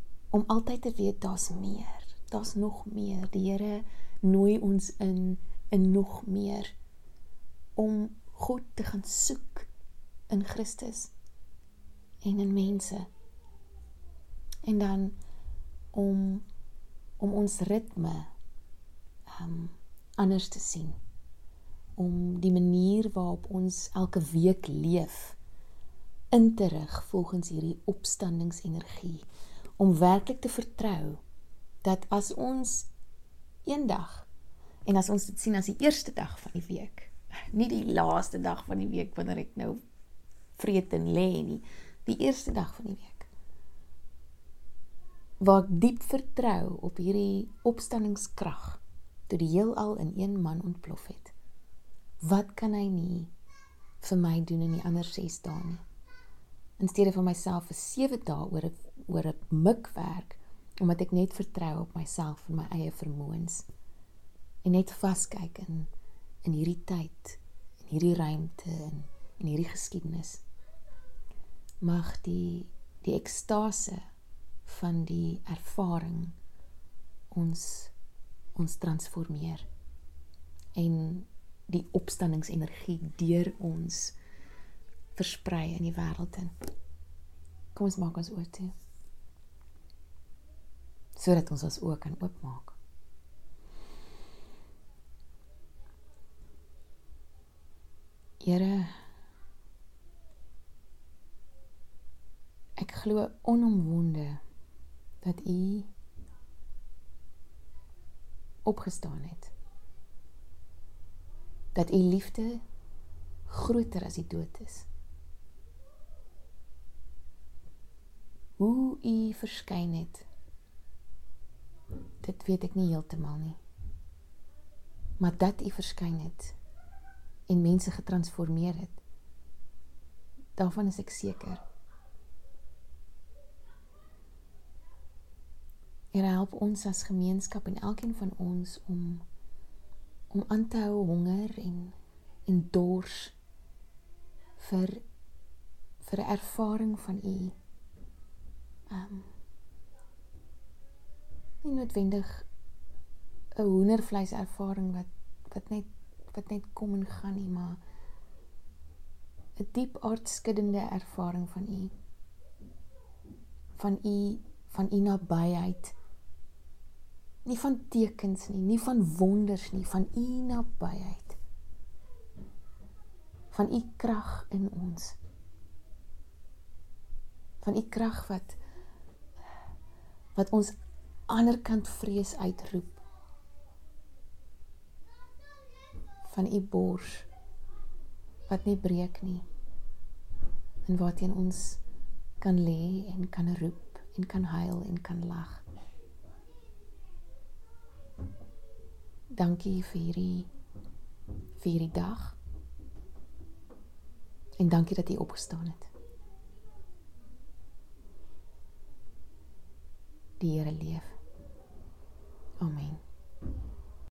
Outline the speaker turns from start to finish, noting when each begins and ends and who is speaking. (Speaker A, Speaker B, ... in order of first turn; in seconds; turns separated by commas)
Speaker A: 0.3-6.8, Speaker A: 7.8-9.7, Speaker A: 10.3-11.1, Speaker A: 12.2-13.1, Speaker A: 14.7-15.2, Speaker A: 15.9-16.4, Speaker A: 17.2-18.3, Speaker A: 19.3-21.0, Speaker A: 22.0-25.4, Speaker A: 26.3-29.2, Speaker A: 29.8-31.2, Speaker A: 31.8-32.9, Speaker A: 33.7-34.3, Speaker A: 34.9-39.8, Speaker A: 40.6-43.3, Speaker A: 45.4-51.3, Speaker A: 52.2-53.3, Speaker A: 54.0-55.8, Speaker A: 56.8-63.7, Speaker A: 64.6-65.9, Speaker A: 66.4-70.4, Speaker A: 71.8-74.0, Speaker A: 74.7-76.4, Speaker A: 77.3-77.9, Speaker A: 78.6-79.7, Speaker A: 80.8-84.2, Speaker A: 85.2-86.5, Speaker A: 87.7-88.7, Speaker A: 91.2-92.8, Speaker A: 98.4-98.9, Speaker A: 102.8-104.4, Speaker A: 105.2-105.9, Speaker A: 108.7-109.5, Speaker A: 111.8-112.6, Speaker A: 113.5-114.9, Speaker A: 118.6-120.3, Speaker A: 122.2-123.6, Speaker A: 125.2-126.5, Speaker A: 127.5-129.0, Speaker A: 130.6-131.6, Speaker A: 136.1-139.2, Speaker A: 140.3-143.3, Speaker A: 144.6-145.0, Speaker A: 146.0-147.6, Speaker A: 148.9-149.3, Speaker A: 151.6-152.5, Speaker A: 153.6-157.8, Speaker A: 159.6-161.9, Speaker A: 163.8-166.0, Speaker A: 167.4-171.4, Speaker A: 173.5-175.2, Speaker A: 177.6-178.6, Speaker A: 180.3-180.7, Speaker A: 181.3-183.0, Speaker A: 186.2-187.3, Speaker A: 188.5-189.4, Speaker A: 190.9-191.8, Speaker A: 192.4-195.6, Speaker A: 199.3-200.5, Speaker A: 201.6-202.4, Speaker A: 204.6-205.9, Speaker A: 210.4-211.1, Speaker A: 212.6-213.0